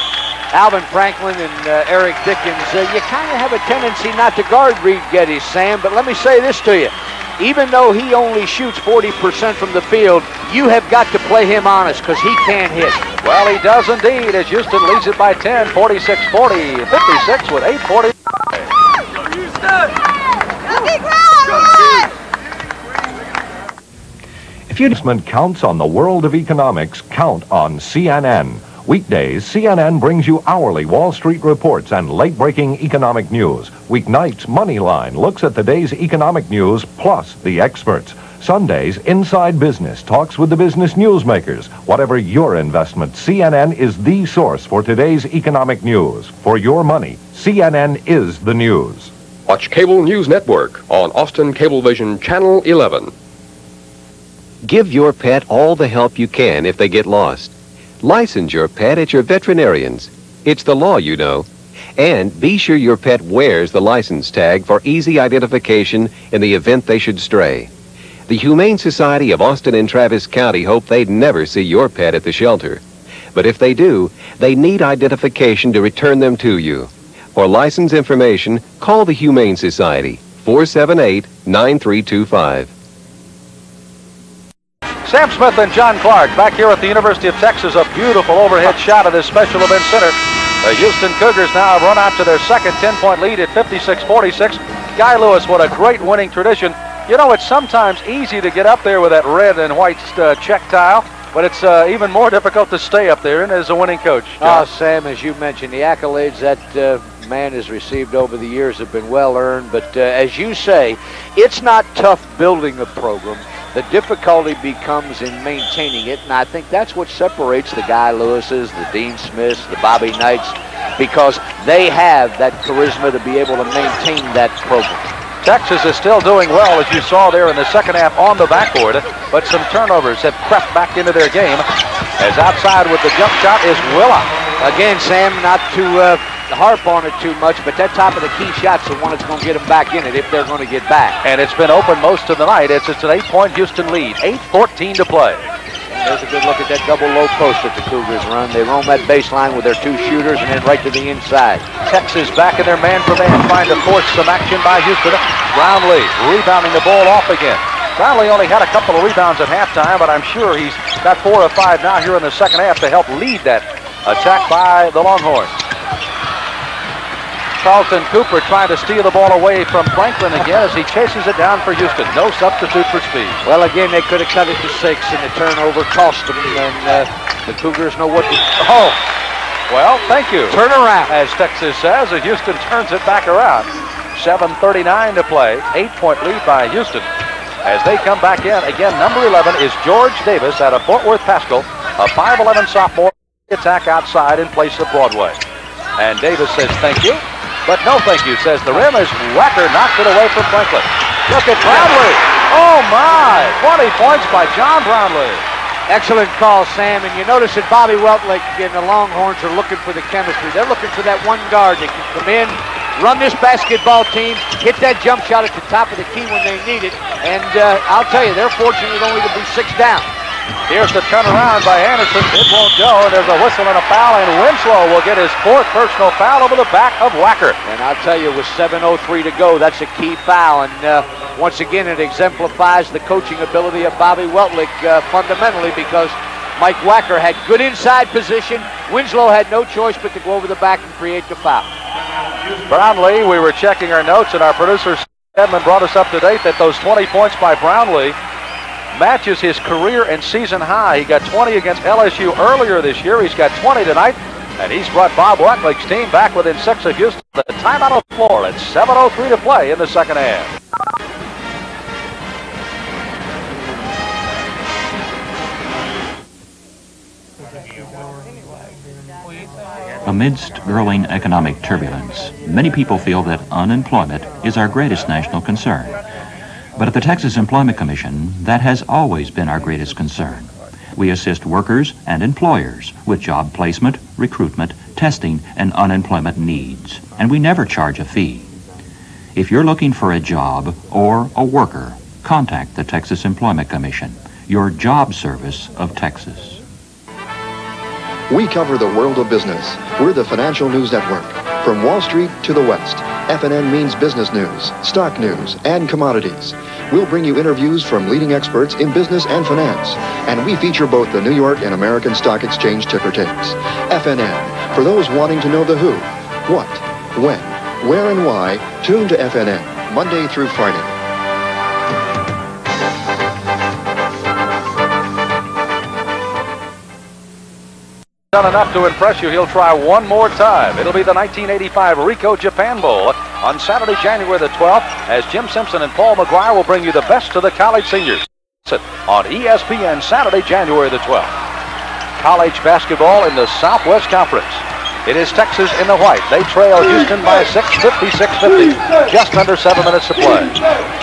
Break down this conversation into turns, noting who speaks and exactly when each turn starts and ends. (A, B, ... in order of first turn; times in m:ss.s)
0:00.5-0:13.0 A
0:13.2-0:18.1 B
0:24.7-0:49.1 C
0:49.5-0:53.1 D
0:54.6-1:07.7 E
1:08.3-1:12.8 E
1:13.3-1:22.7 E
1:25.0-1:44.6 B
1:44.4-2:05.1 A
2:05.4-2:11.6 B
2:12.2-2:14.3 B
2:14.6-2:21.2 A
2:21.2-2:25.4 B
2:25.9-2:31.6 A
2:31.8-2:45.5 B
2:47.6-2:53.4 B
2:53.4-2:59.0 A
2:59.7-3:07.1 B
3:00.5-3:01.1 A
3:07.6-3:15.4 B
3:16.0-3:25.4 B
3:25.9-3:40.1 A
3:40.7-3:47.6 B
3:47.6-4:01.7 A
4:02.7-4:08.2 B
4:08.9-4:20.5 B
4:30.0-4:36.0 F
4:36.8-4:48.5 F
4:49.3-4:56.6 F
4:58.3-5:21.0 G
5:28.3-5:41.3 B
5:42.2-5:50.6 B